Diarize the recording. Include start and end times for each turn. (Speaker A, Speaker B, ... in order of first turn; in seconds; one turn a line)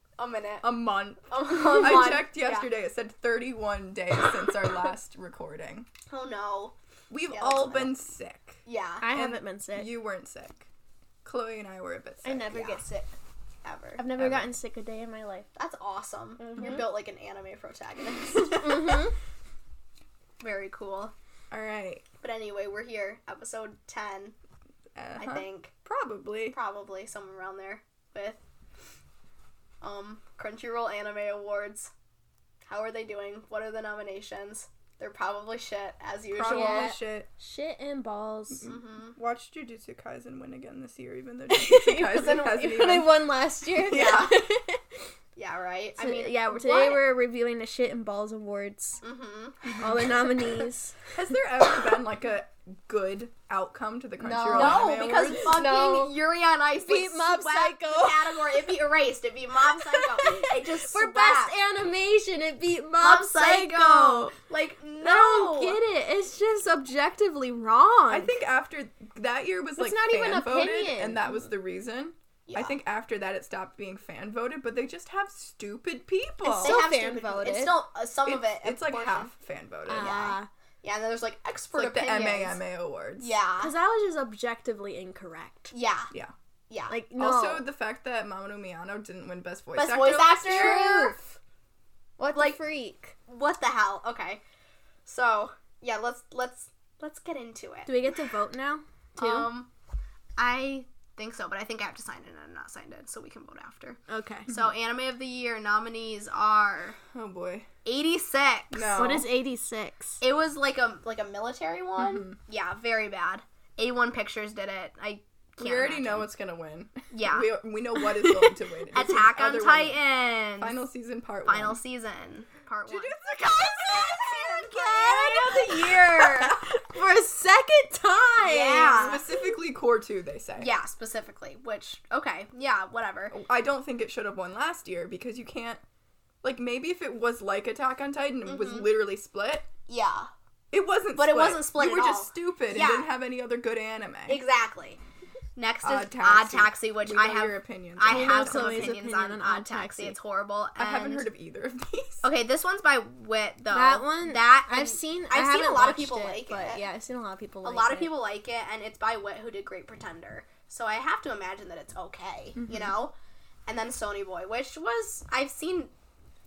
Speaker A: 0.2-0.7
Speaker B: 0.6-5.9
Speaker A: 1.3-2.7
Speaker A: 6.1-6.8
Speaker B: 7.1-10.7
Speaker A: 7.3-8.0
Speaker A: 8.7-9.1
Speaker C: 9.0-9.9
Speaker B: 11.2-12.5
Speaker C: 12.2-13.1
Speaker A: 12.5-12.8
Speaker A: 13.7-14.0
Speaker C: 14.0-15.5
Speaker B: 14.2-14.5
Speaker A: 15.6-19.1
Speaker C: 16.4-16.9
Speaker C: 18.4-19.1
Speaker A: 20.4-21.1
Speaker B: 21.5-22.1
Speaker A: 22.2-24.4
Speaker B: 24.9-26.6
Speaker A: 25.2-25.7
Speaker A: 26.5-28.4
Speaker A: 29.8-31.9
Speaker A: 32.7-37.0
Speaker B: 36.3-37.3
Speaker C: 36.5-38.7
Speaker B: 38.5-43.2
Speaker A: 38.6-39.2
Speaker C: 41.5-44.8
Speaker A: 43.9-44.4
Speaker B: 44.0-44.2
Speaker A: 45.4-47.0
Speaker C: 46.0-49.0
Speaker A: 49.0-50.0
Speaker B: 49.7-50.1
Speaker C: 49.8-51.2
Speaker B: 51.1-55.6
Speaker C: 54.2-56.2
Speaker A: 54.5-61.6
Speaker C: 56.8-58.7
Speaker C: 59.9-63.7
Speaker A: 63.0-65.8
Speaker B: 63.4-64.3
Speaker C: 65.0-68.3
Speaker B: 68.1-76.8
Speaker C: 69.8-71.3
Speaker A: 72.5-72.8
Speaker C: 76.5-77.8
Speaker A: 76.6-79.3
Speaker B: 78.2-80.2
Speaker C: 79.9-80.5
Speaker A: 79.9-82.6
Speaker B: 81.7-83.3
Speaker A: 83.2-83.7
Speaker C: 83.6-85.7
Speaker A: 85.7-86.1
Speaker A: 86.7-87.0
Speaker C: 86.9-87.7
Speaker B: 87.2-90.9
Speaker A: 89.8-91.2
Speaker C: 90.4-91.2
Speaker C: 92.2-93.2
Speaker A: 93.3-94.4
Speaker A: 95.1-98.2
Speaker C: 97.9-99.5
Speaker A: 99.2-99.7
Speaker A: 100.4-107.0
Speaker C: 104.1-104.5
Speaker B: 107.1-107.7
Speaker A: 107.8-109.0
Speaker B: 108.7-109.3
Speaker C: 108.9-110.2
Speaker A: 110.2-116.3
Speaker B: 112.0-112.4
Speaker B: 115.6-120.0
Speaker A: 117.1-117.5
Speaker C: 118.0-118.6
Speaker A: 118.9-120.8
Speaker B: 120.6-121.8
Speaker A: 121.5-126.6
Speaker B: 122.9-125.4
Speaker C: 124.8-129.2
Speaker B: 126.3-126.6
Speaker A: 128.4-129.2
Speaker B: 129.0-130.7
Speaker A: 130.6-133.4
Speaker B: 133.3-135.8
Speaker B: 136.4-139.7
Speaker A: 138.4-138.9
Speaker A: 139.9-140.3
Speaker B: 140.7-144.4
Speaker A: 141.2-143.1
Speaker A: 144.3-145.0
Speaker A: 145.6-151.3
Speaker B: 145.8-149.0
Speaker C: 148.1-150.2
Speaker B: 150.8-152.2
Speaker A: 152.2-156.8
Speaker C: 153.7-158.1
Speaker A: 157.6-163.1
Speaker B: 162.6-162.9
Speaker A: 163.7-165.9